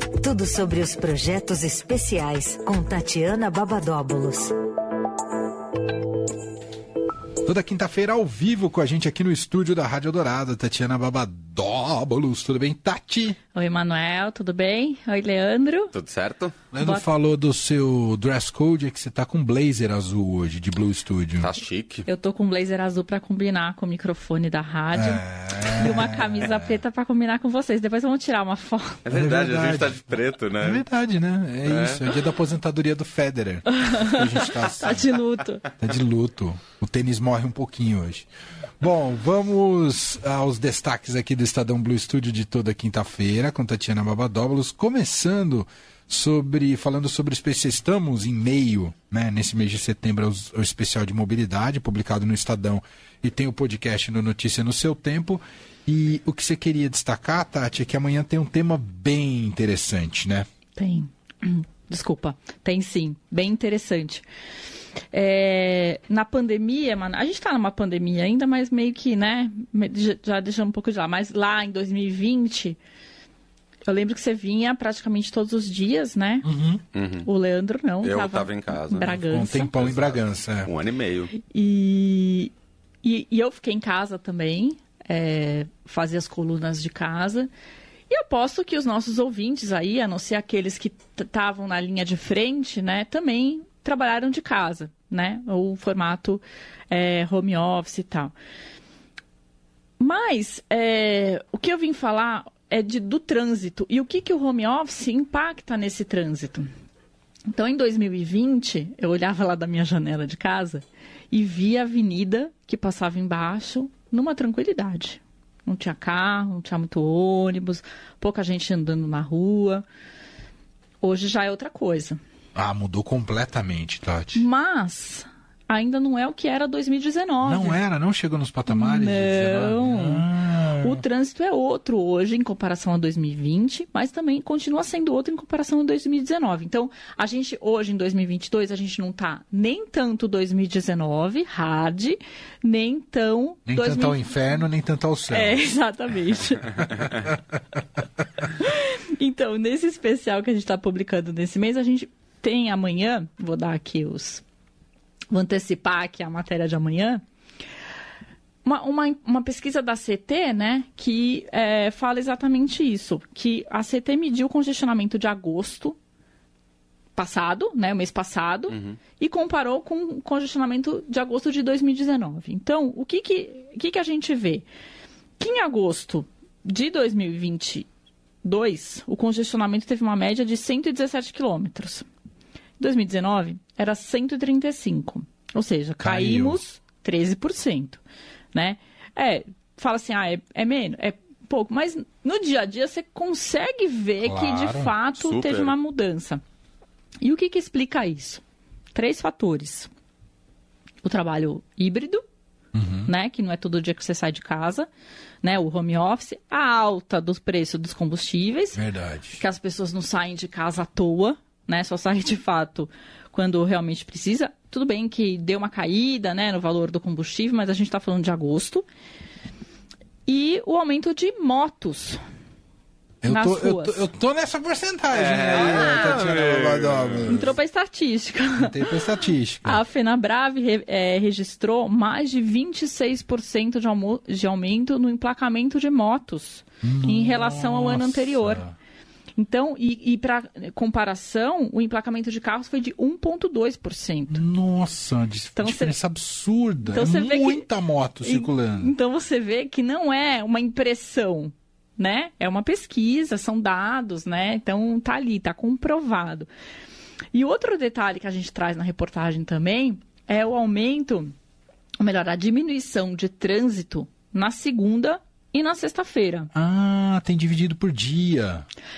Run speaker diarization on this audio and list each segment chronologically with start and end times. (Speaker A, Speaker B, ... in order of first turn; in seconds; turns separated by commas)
Speaker A: 0.2-4.5, Speaker B: 7.5-13.4, Speaker C: 13.5-15.9, Speaker D: 15.9-16.6, Speaker B: 16.7-21.5, Speaker C: 16.8-17.1, Speaker D: 21.4-22.1, Speaker C: 22.1-29.0, Speaker B: 24.9-26.8, Speaker D: 29.0-30.8, Speaker B: 29.1-35.1, Speaker D: 31.6-32.1, Speaker C: 33.8-35.6, Speaker B: 35.8-38.3, Speaker B: 38.8-60.5, Speaker C: 60.8-64.2, Speaker C: 65.1-72.8, Speaker C: 73.8-76.5, Speaker B: 76.4-76.8, Speaker D: 76.9-77.3, Speaker C: 77.2-79.7, Speaker D: 78.0-81.3, Speaker B: 79.1-80.7, Speaker C: 81.4-82.5, Speaker C: 83.0-87.5, Speaker C: 88.1-98.3, Speaker C: 100.0-106.7, Speaker C: 107.5-119.8, Speaker C: 121.0-122.2, Speaker B: 122.5-124.4, Speaker C: 124.3-127.8, Speaker B: 127.4-131.0, Speaker C: 128.7-144.6, Speaker B: 143.7-145.6, Speaker C: 145.3-147.1, Speaker B: 146.8-147.6, Speaker C: 148.4-154.4, Speaker C: 155.3-157.2, Speaker C: 158.6-166.0, Speaker C: 167.2-174.7, Speaker D: 168.7-169.0, Speaker C: 175.4-177.9, Speaker C: 178.4-182.1, Speaker C: 182.8-188.0, Speaker B: 186.0-186.6, Speaker C: 188.5-196.4, Speaker B: 194.2-194.9, Speaker D: 195.2-195.7, Speaker C: 197.2-199.9, Speaker C: 201.0-202.2, Speaker B: 202.7-203.1, Speaker C: 203.1-204.9, Speaker C: 205.4-208.8, Speaker B: 208.7-209.4, Speaker C: 209.4-218.8, Speaker C: 220.2-222.2, Speaker B: 223.2-227.6, Speaker C: 223.3-224.1, Speaker D: 225.1-227.5, Speaker C: 227.3-229.0, Speaker B: 228.6-229.8, Speaker C: 229.6-238.6, Speaker B: 236.8-238.8, Speaker C: 239.4-244.4, Speaker B: 244.3-248.9, Speaker C: 245.6-245.9, Speaker C: 246.8-247.7, Speaker C: 248.2-256.5, Speaker C: 257.3-261.3, Speaker C: 262.0-266.5, Speaker B: 266.5-268.6